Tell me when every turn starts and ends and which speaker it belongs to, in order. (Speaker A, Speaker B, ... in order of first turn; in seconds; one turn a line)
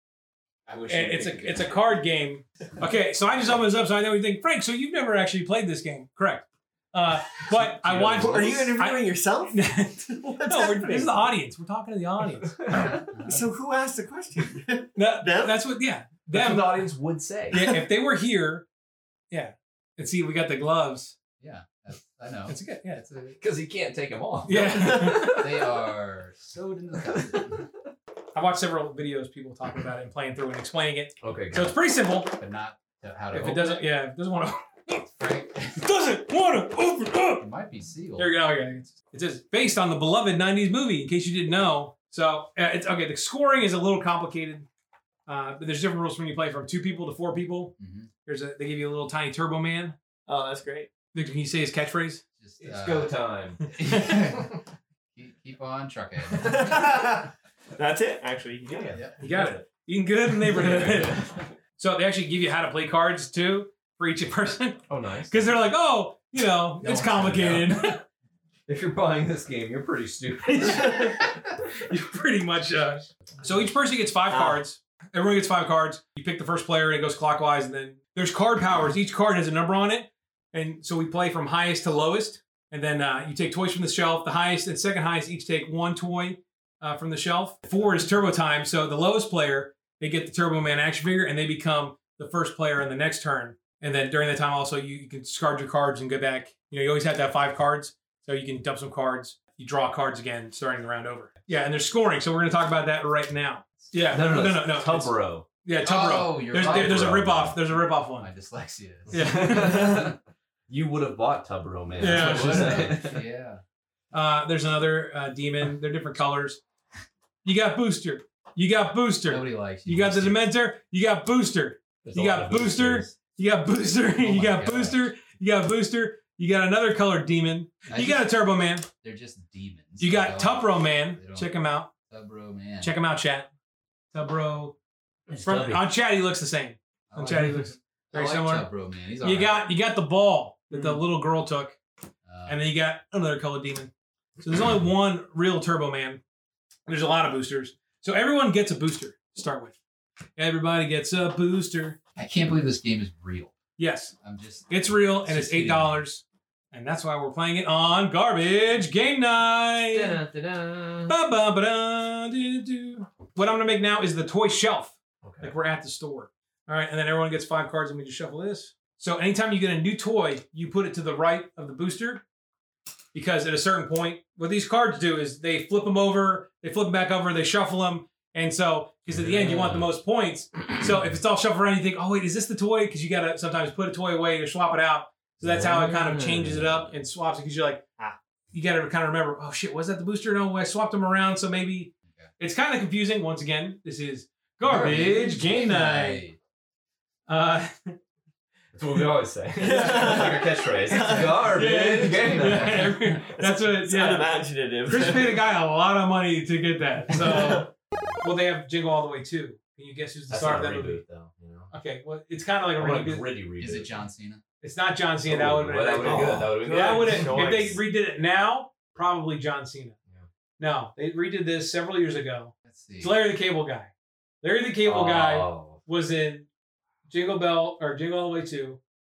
Speaker A: 0.7-1.7
Speaker B: 0.9-13.0
Speaker A: 7.5-8.5
Speaker C: 8.3-11.3
Speaker D: 13.1-13.4
Speaker C: 13.2-15.5
Speaker B: 14.9-16.9
Speaker A: 16.3-17.6
Speaker B: 17.5-18.6
Speaker C: 17.6-17.8
Speaker B: 19.3-21.1
Speaker D: 21.4-23.4
Speaker B: 22.5-23.0
Speaker A: 23.4-25.6
Speaker B: 24.4-25.4
Speaker D: 25.2-27.6
Speaker A: 27.0-27.6
Speaker B: 28.3-32.4
Speaker A: 31.2-31.7
Speaker D: 32.4-33.9
Speaker B: 33.3-35.0
Speaker D: 35.1-35.9
Speaker B: 35.8-37.4
Speaker D: 37.4-38.3
Speaker B: 38.2-44.6
Speaker B: 45.3-47.7
Speaker D: 47.8-48.1
Speaker B: 48.2-49.9
Speaker C: 50.3-50.9
Speaker B: 51.1-52.2
Speaker D: 52.4-54.6
Speaker A: 52.6-54.2
Speaker B: 53.6-54.1
Speaker D: 55.1-57.0
Speaker C: 56.4-59.0
Speaker D: 58.7-59.2
Speaker A: 59.2-59.6
Speaker B: 59.2-61.2
Speaker A: 60.5-61.4
Speaker B: 61.8-68.0
Speaker A: 64.9-65.5
Speaker A: 66.8-67.7
Speaker A: 68.7-71.1
Speaker B: 70.5-71.3
Speaker B: 71.9-108.3
Speaker C: 74.3-74.6
Speaker A: 104.1-105.5
Speaker D: 105.8-110.2
Speaker A: 106.6-107.2
Speaker B: 109.1-110.0
Speaker A: 109.1-110.1
Speaker A: 110.7-113.2
Speaker D: 112.0-113.6
Speaker B: 112.0-112.9
Speaker B: 114.1-116.6
Speaker B: 117.4-128.9
Speaker D: 119.3-120.5
Speaker A: 122.0-123.1
Speaker D: 124.2-125.1
Speaker D: 127.9-128.3
Speaker D: 129.0-131.5
Speaker B: 130.0-131.9
Speaker D: 132.1-132.9
Speaker B: 132.8-133.5
Speaker B: 134.1-134.7
Speaker A: 135.3-135.8
Speaker B: 135.3-138.7
Speaker D: 137.1-139.6
Speaker B: 139.2-141.8
Speaker C: 140.7-141.0
Speaker D: 142.3-142.6
Speaker B: 142.5-146.2
Speaker B: 146.9-149.8
Speaker B: 150.4-152.0
Speaker D: 152.2-153.5
Speaker B: 153.8-154.1
Speaker D: 154.2-154.7
Speaker B: 154.7-160.2
Speaker D: 155.2-156.0
Speaker A: 159.9-161.1
Speaker B: 161.1-172.2
Speaker A: 165.2-165.5
Speaker B: 173.1-187.8
Speaker A: 179.1-179.9
Speaker A: 185.4-186.9
Speaker B: 188.5-196.2
Speaker D: 194.7-196.4
Speaker A: 194.7-194.9
Speaker B: 197.3-197.9
Speaker A: 198.7-202.9
Speaker B: 199.6-200.4
Speaker C: 199.6-201.6
Speaker B: 200.9-204.3
Speaker D: 202.4-202.8
Speaker C: 203.2-205.4
Speaker B: 204.8-207.7
Speaker C: 207.2-207.7
Speaker B: 208.2-211.0
Speaker A: 210.3-211.7
Speaker B: 211.7-213.2
Speaker A: 212.8-214.0
Speaker D: 213.6-214.4
Speaker B: 214.6-219.9
Speaker A: 215.2-217.7
Speaker C: 216.0-217.8
Speaker B: 220.6-223.9
Speaker D: 222.7-223.2
Speaker B: 224.4-226.5
Speaker A: 224.8-225.8
Speaker B: 227.1-228.8